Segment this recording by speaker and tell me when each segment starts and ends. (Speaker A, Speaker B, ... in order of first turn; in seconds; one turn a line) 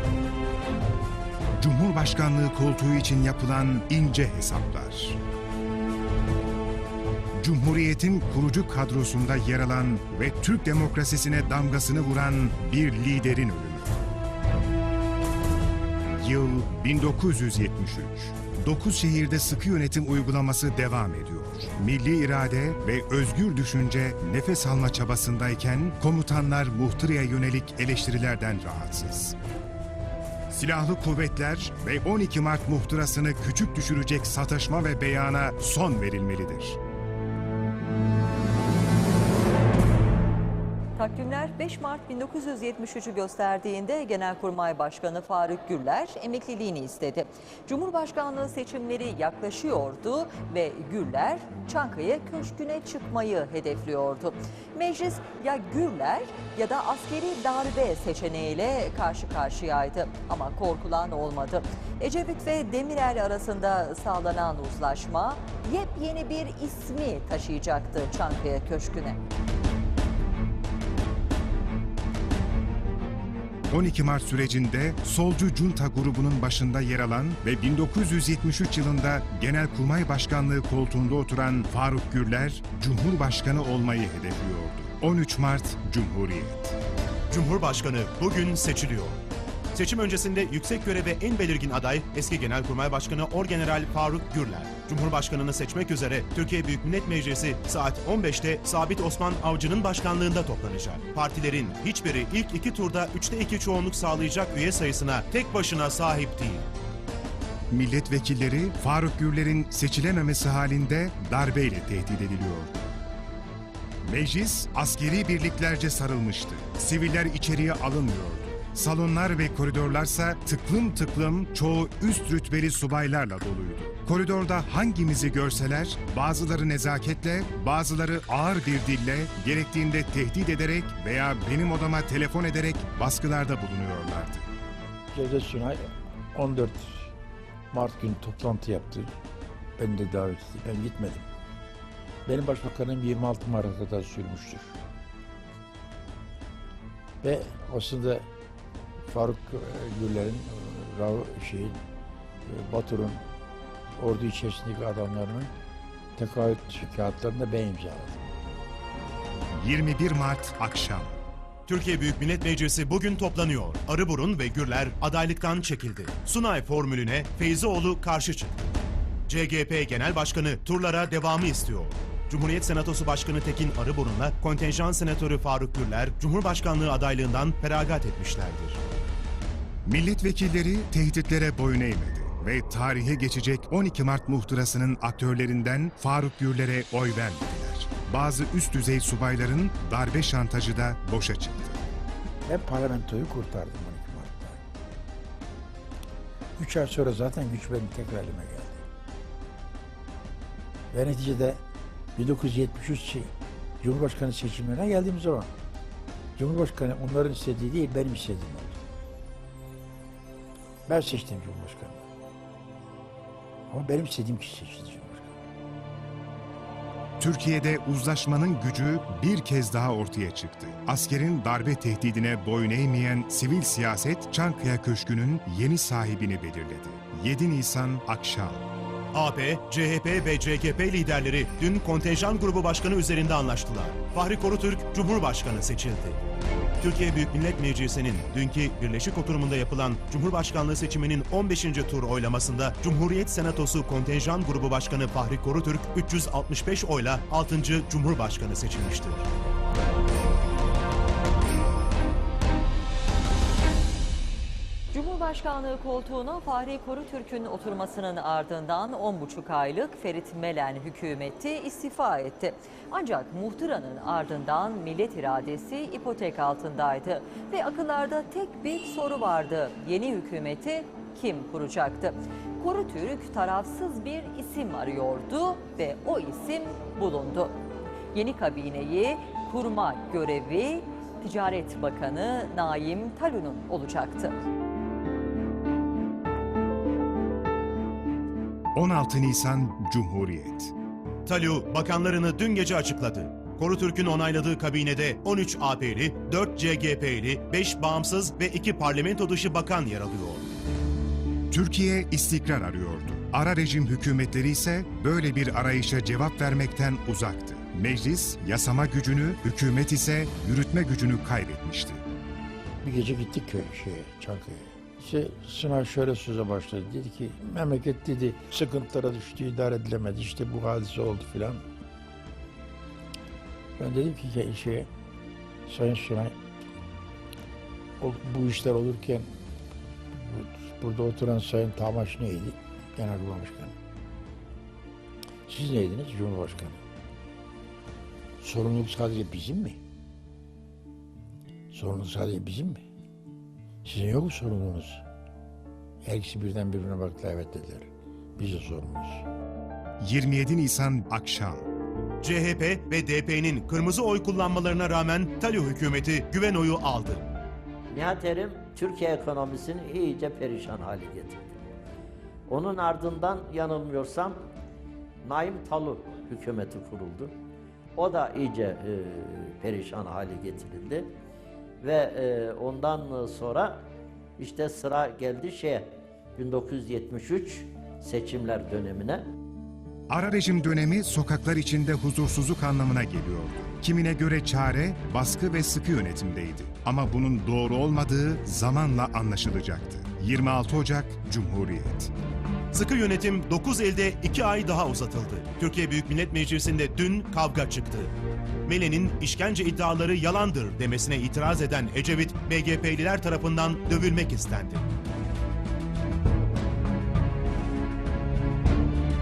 Speaker A: 1.6-5.2
Speaker A: 7.4-14.0
Speaker A: 16.2-29.4
Speaker A: 30.5-36.8
Speaker B: 41.0-69.2
Speaker A: 73.7-86.8
Speaker C: 87.3-89.2
Speaker C: 89.7-106.7
Speaker A: 107.7-112.8
Speaker A: 114.0-134.5
Speaker D: 135.1-137.1
Speaker D: 137.7-139.1
Speaker D: 139.8-141.3
Speaker D: 142.2-144.8
Speaker D: 147.2-148.3
Speaker D: 149.1-151.8
Speaker D: 152.4-153.2
Speaker D: 154.0-155.5
Speaker D: 156.2-158.3
Speaker A: 159.5-161.2
Speaker C: 161.7-168.7
Speaker C: 169.3-178.8
Speaker A: 179.8-191.8
Speaker D: 192.4-194.6
Speaker D: 196.6-198.8
Speaker D: 200.9-201.6
Speaker D: 202.2-205.5
Speaker D: 206.3-208.8
Speaker D: 210.9-212.0
Speaker D: 213.7-215.4
Speaker A: 217.2-228.6
Speaker C: 229.1-236.2
Speaker C: 236.8-249.3
Speaker B: 254.9-277.6
Speaker B: 278.1-284.4
Speaker A: 288.7-290.7
Speaker C: 291.2-300.5
Speaker A: 301.5-312.0
Speaker D: 312.8-321.6
Speaker D: 323.8-324.9
Speaker D: 325.6-326.4
Speaker D: 328.0-329.3
Speaker D: 330.1-333.8
Speaker D: 335.5-336.8
Speaker D: 338.4-339.8
Speaker D: 341.7-342.8
Speaker D: 343.8-345.0
Speaker D: 346.0-349.2
Speaker A: 350.0-351.6
Speaker C: 352.2-357.2
Speaker E: 357.9-361.6
Speaker E: 362.5-364.4
Speaker E: 365.2-367.3
Speaker E: 367.9-371.1
Speaker E: 371.8-373.9
Speaker E: 374.4-379.2
Speaker A: 380.1-392.1
Speaker C: 392.7-398.1
Speaker C: 398.6-404.9